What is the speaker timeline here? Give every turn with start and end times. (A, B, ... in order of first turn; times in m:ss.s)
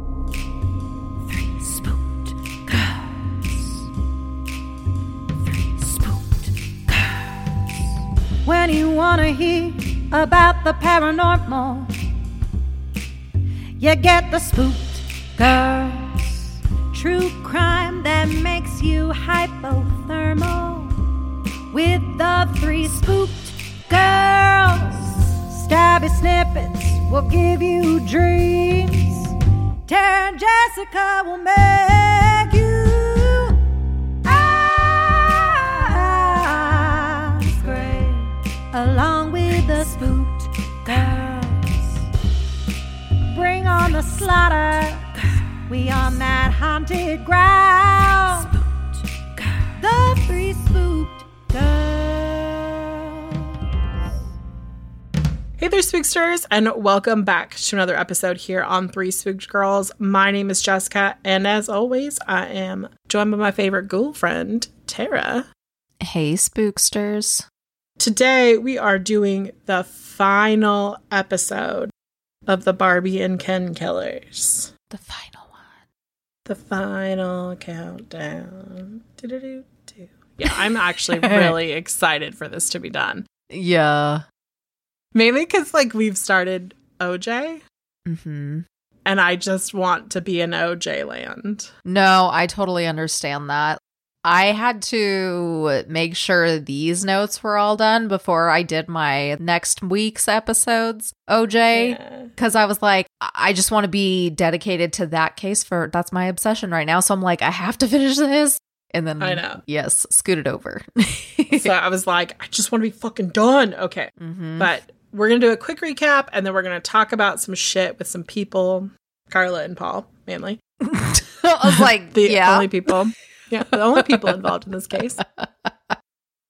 0:01.3-0:03.8 A
0:05.5-0:07.3 A
0:08.4-0:11.9 A
0:13.8-0:20.9 A
0:21.7-0:29.3 A
0:29.9-0:33.6 A
0:34.2-0:42.0 A
0:43.3-0:45.1 A
0:45.7-0:48.6 A
0:49.7-0:52.9 A
0:55.6-1:05.5 B
1:06.0-1:07.5 C
1:08.0-1:11.9 B
1:12.5-1:14.7 B
1:14.9-1:15.8 C
1:16.5-1:23.2 B
1:21.2-1:21.6 C
1:23.5-1:24.2 C
1:25.2-1:27.6 B
1:28.1-1:28.6 C
1:29.1-1:31.7 B
1:31.8-1:51.7 C
1:41.7-1:42.3 B
1:49.2-1:49.6 B
1:51.5-2:00.6 B
1:54.2-1:54.7 C
2:00.8-2:02.7 C
2:01.7-2:05.2 B
2:05.4-2:06.0 C